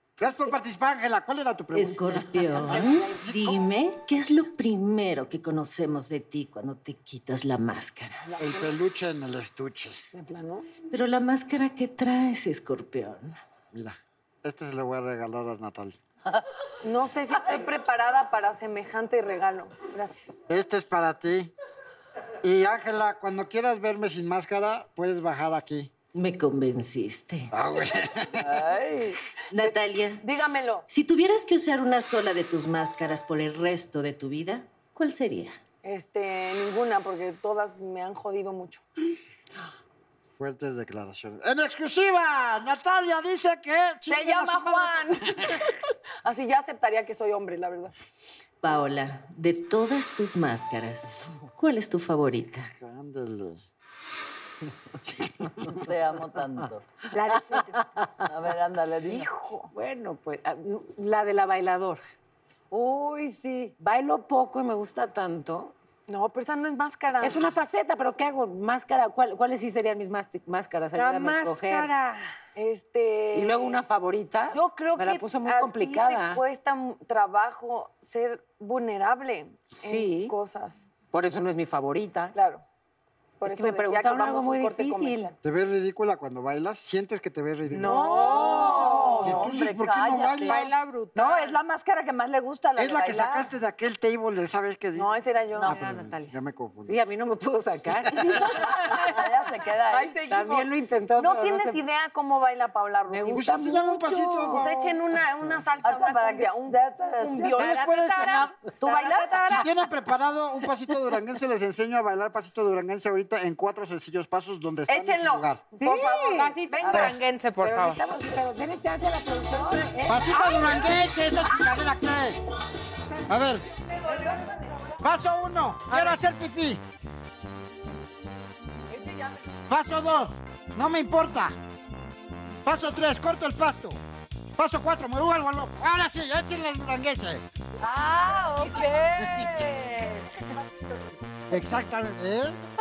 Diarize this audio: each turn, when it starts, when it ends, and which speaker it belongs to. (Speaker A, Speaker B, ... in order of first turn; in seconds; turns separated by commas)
Speaker A: 0.2-3.6, Speaker B: 1.7-8.3, Speaker C: 2.7-3.2, Speaker C: 8.2-8.7, Speaker A: 8.4-10.0, Speaker C: 10.1-10.7, Speaker B: 10.9-13.4, Speaker A: 13.7-16.0, Speaker C: 16.8-20.4, Speaker A: 20.5-21.5, Speaker A: 22.4-25.9, Speaker B: 26.1-27.5, Speaker A: 27.5-28.6, Speaker D: 28.4-29.2, Speaker B: 29.5-30.2, Speaker C: 29.6-30.9, Speaker B: 30.9-35.6, Speaker C: 35.8-38.8, Speaker A: 40.4-45.6, Speaker C: 44.1-47.9, Speaker B: 48.6-52.7, Speaker A: 52.8-53.6, Speaker A: 55.0-55.8, Speaker D: 55.7-56.9, Speaker E: 57.1-58.1, Speaker C: 57.4-57.6, Speaker D: 58.2-59.3, Speaker C: 59.1-59.7, Speaker E: 59.7-62.0, Speaker D: 62.7-63.8, Speaker E: 63.8-65.7, Speaker C: 66.1-67.4, Speaker E: 67.2-71.9, Speaker F: 70.9-72.4, Speaker C: 72.5-73.8, Speaker E: 73.3-76.4, Speaker C: 74.5-80.9, Speaker E: 79.8-80.3, Speaker E: 81.1-82.3, Speaker C: 82.3-82.6, Speaker C: 83.4-85.4, Speaker E: 83.4-85.3, Speaker A: 85.4-88.2, Speaker C: 87.8-89.5, Speaker E: 87.8-89.2, Speaker F: 87.9-89.3, Speaker D: 88.1-93.5, Speaker A: 89.2-90.7, Speaker F: 90.4-91.6, Speaker A: 92.8-97.0, Speaker C: 95.0-95.8, Speaker E: 95.6-96.3, Speaker E: 96.8-99.2, Speaker A: 98.1-98.5, Speaker D: 98.7-100.2, Speaker C: 99.9-103.8, Speaker E: 100.3-101.8, Speaker E: 103.1-104.9, Speaker A: 103.3-104.7, Speaker C: 104.5-109.7, Speaker D: 105.8-107.8, Speaker A: 107.5-108.6, Speaker A: 109.5-115.6, Speaker C: 114.9-117.1, Speaker E: 115.8-116.5, Speaker F: 116.4-118.0, Speaker D: 116.8-117.2, Speaker E: 117.6-120.4, Speaker A: 120.0-122.4, Speaker F: 120.4-120.8, Speaker C: 120.4-121.6, Speaker A: 123.3-123.6, Speaker C: 123.9-124.9, Speaker A: 125.0-126.8, Speaker C: 128.9-129.6, Speaker A: 129.7-131.6, Speaker A: 132.7-134.0, Speaker A: 134.6-137.4, Speaker D: 137.8-140.3, Speaker C: 138.6-139.9, Speaker A: 139.2-139.6, Speaker A: 141.5-142.6